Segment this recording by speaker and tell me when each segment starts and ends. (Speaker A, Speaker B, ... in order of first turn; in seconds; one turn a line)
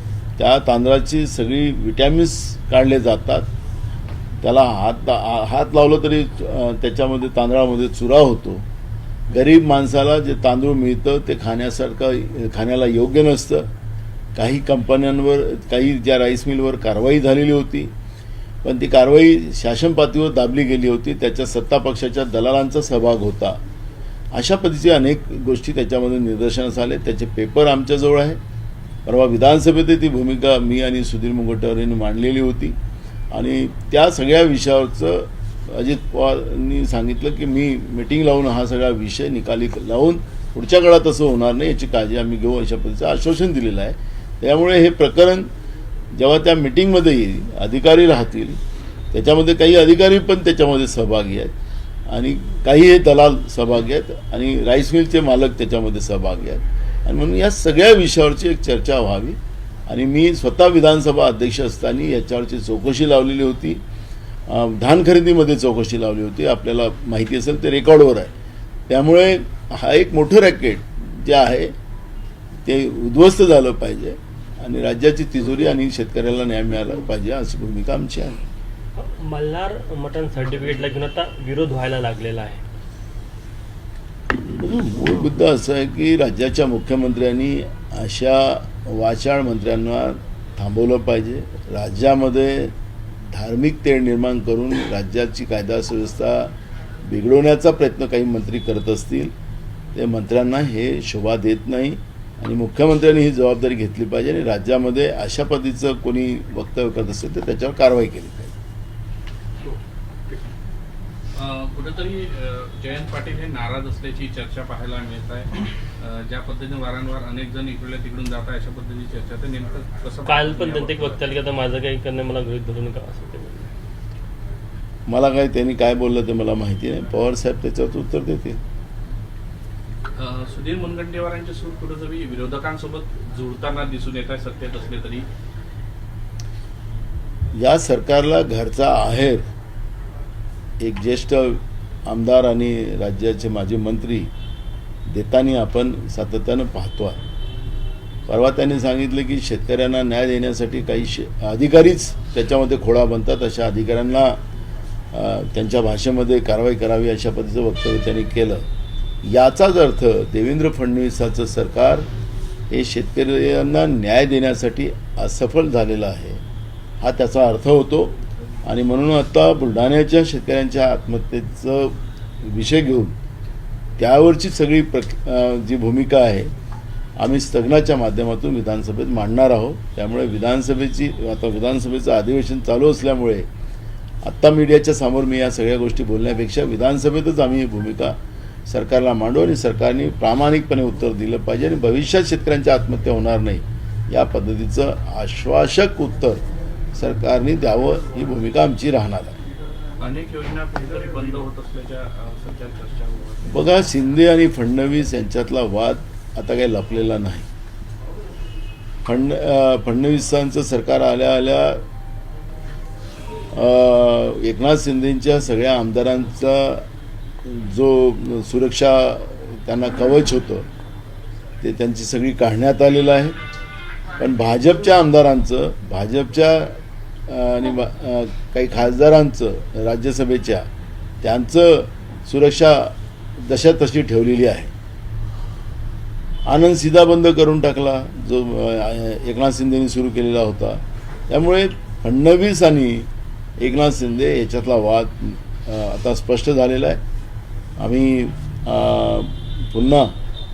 Speaker A: 0.4-3.5
Speaker A: 4.4-8.6
Speaker A: 9.3-13.7
Speaker A: 14.3-17.9
Speaker A: 18.6-23.6
Speaker A: 24.3-28.4
Speaker A: 29.1-32.8
Speaker A: 33.3-45.5
Speaker A: 46.1-48.6
Speaker A: 49.1-51.5
Speaker A: 52.1-63.8
Speaker A: 64.5-68.3
Speaker A: 68.9-71.7
Speaker A: 72.6-78.4
Speaker B: 79.0-82.6
Speaker A: 84.4-92.7
Speaker A: 93.3-99.3
Speaker A: 99.9-108.5
Speaker C: 111.3-121.2
Speaker B: 120.2-123.7
Speaker A: 125.1-128.6
Speaker C: 130.2-135.3
Speaker A: 137.5-139.5
Speaker A: 140.8-144.3
Speaker A: 145.1-147.2
Speaker A: 148.3-154.4
Speaker A: 155.1-158.7
Speaker A: 159.2-162.1
Speaker A: 162.7-166.4
Speaker A: 167.0-173.1
Speaker A: 174.0-176.5
Speaker A: 177.2-183.5
Speaker A: 184.2-188.2
Speaker A: 188.7-199.4
Speaker C: 200.0-203.7
Speaker A: 203.4-207.5
Speaker A: 209.0-211.8
Speaker A: 213.5-216.9
Speaker A: 217.4-220.7
Speaker A: 221.6-223.3
Speaker A: 224.2-230.7
Speaker A: 231.2-234.7
Speaker A: 236.4-247.0
Speaker A: 247.8-250.1